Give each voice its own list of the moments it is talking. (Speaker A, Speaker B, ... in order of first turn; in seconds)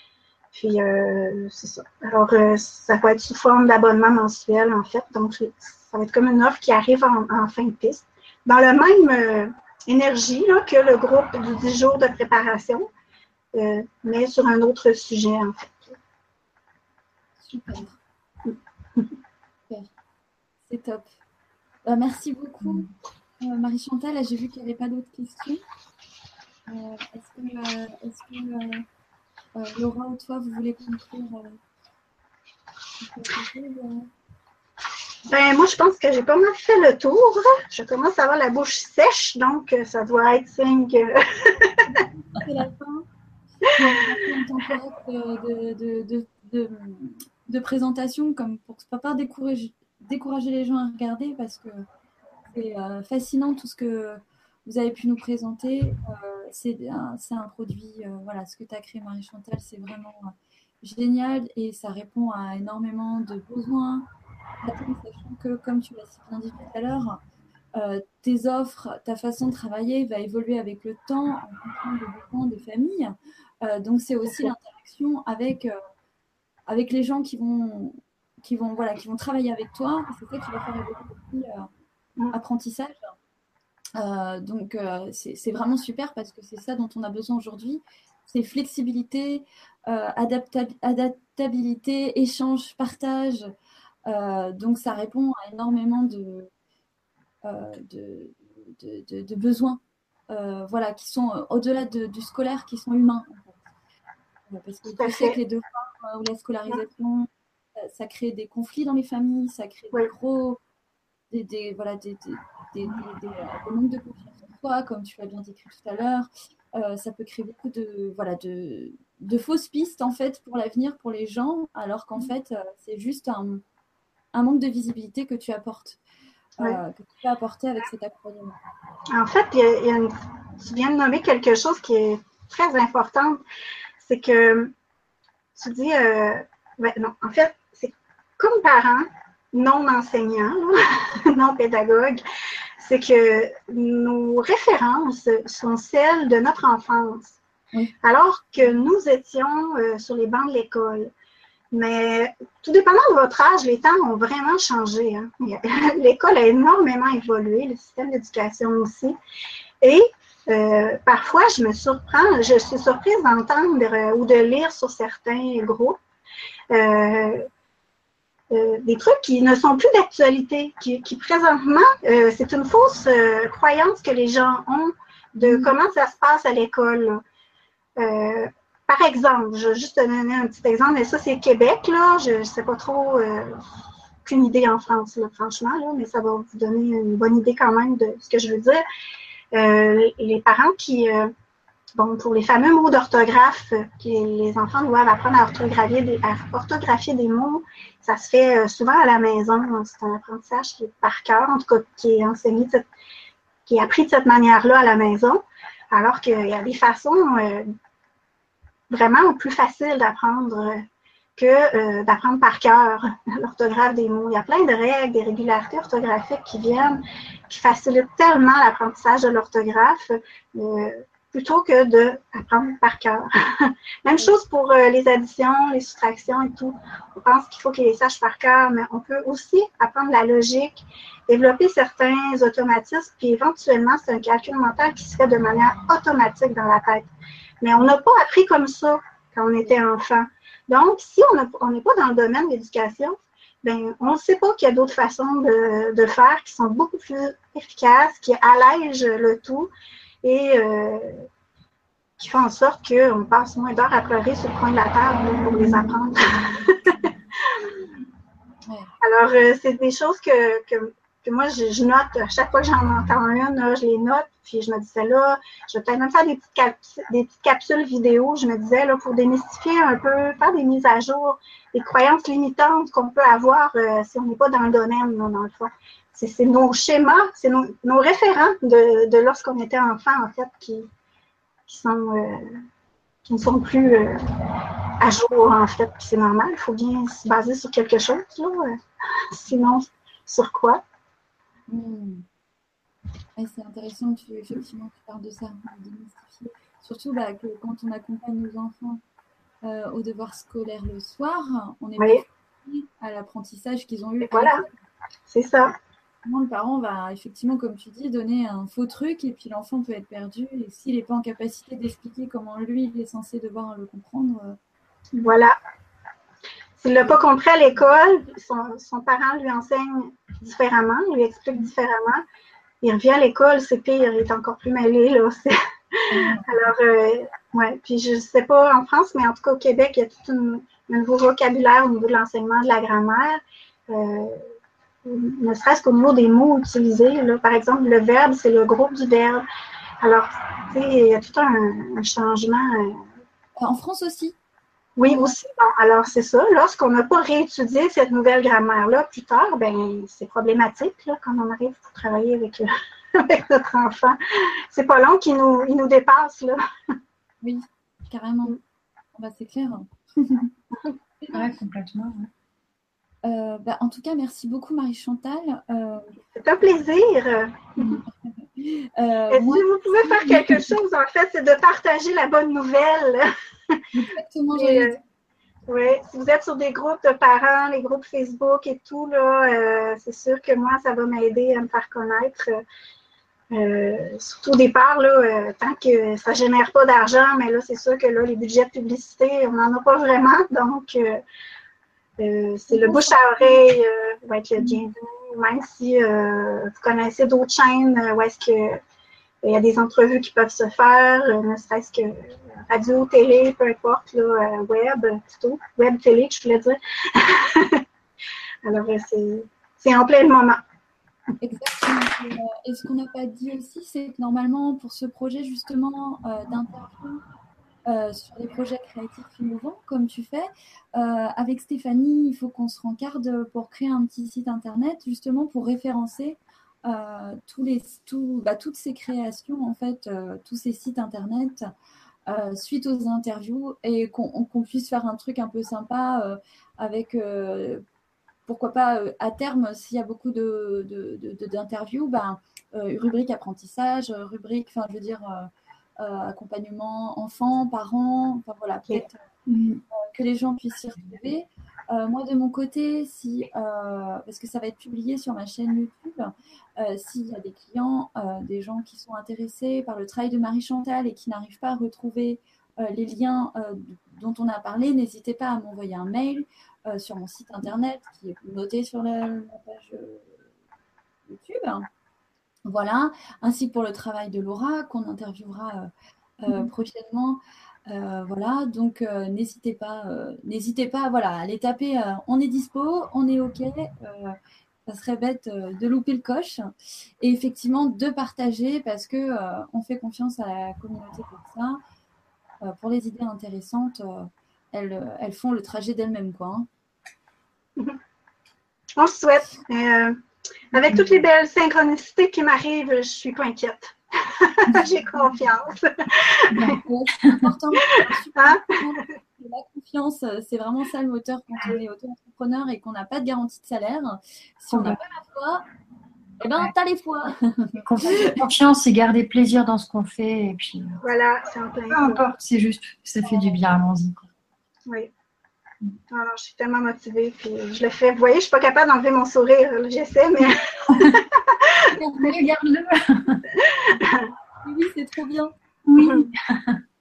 Speaker A: 0.5-12.9, 13.5-15.9, 18.4-19.1, 35.3-42.0, 74.3-74.5, 104.9-105.4, 129.1-133.4, 134.0-134.7, 135.5-140.8, 141.3-142.2, 142.8-147.4, 148.0-151.1, 151.7-159.2, 159.8-166.0, 166.7-167.5, 168.5-177.2, 178.0-183.6, 184.2-188.8, 189.5-191.3, 191.9-202.8, 203.7-207.7, 208.9-210.8, 211.3-237.1, 237.6-249.7, 250.2-251.3, 252.2-257.8, 259.0-280.9, 281.7-282.6, 283.2-284.2, 285.0-288.8, 289.3-290.8, 302.0-302.2, 304.2-304.6, 305.3-305.7, 315.1-315.5, 316.8-322.2, 322.8-334.5, 335.0-339.4, 340.0-343.1, 345.0-354.2, 354.7-356.6, 366.3-367.9, 369.3-373.8, 374.5-375.0, 375.7-382.6, 383.5-391.2, 392.2-398.8, 399.4-407.8, 408.6-410.6, 498.9-500.1, 500.7-506.7, 508.4-508.7, 521.0-522.2, 526.1-532.0, 533.6-534.3
Speaker B: 17.4-18.0, 20.7-21.1, 21.8-22.9, 23.4-25.6, 26.7-28.8, 29.5-31.6, 33.0-34.1, 41.8-43.0, 43.6-51.9, 52.5-64.1, 64.6-67.2, 67.7-75.7, 76.7-81.7, 82.3-83.1, 84.0-93.5, 94.0-96.5, 97.4-103.6, 104.5-110.6, 111.3-123.6, 124.3-126.0, 126.6-128.6, 175.4-175.7, 291.7-292.2, 293.4-299.0, 299.6-304.7, 306.2-314.6, 326.1-326.5, 343.6-344.4, 345.1-345.3, 357.4-358.6, 359.1-360.5, 361.2-361.5, 363.2-366.1, 367.8-370.7, 373.9-375.0, 392.7-393.2, 411.4-417.2, 417.9-431.7, 432.3-437.8, 438.5-449.2, 449.9-470.3, 471.3-471.9, 472.6-475.9, 476.4-486.7, 487.2-491.8, 492.6-496.7, 506.7-515.6, 516.4-518.4, 532.0-532.3, 534.6-535.6
Speaker C: 22.6-22.9, 361.3-362.3, 449.5-449.8, 506.5-507.4, 514.7-515.0, 517.8-521.0, 521.9-524.3, 530.9-531.2, 532.2-533.4, 535.9-536.8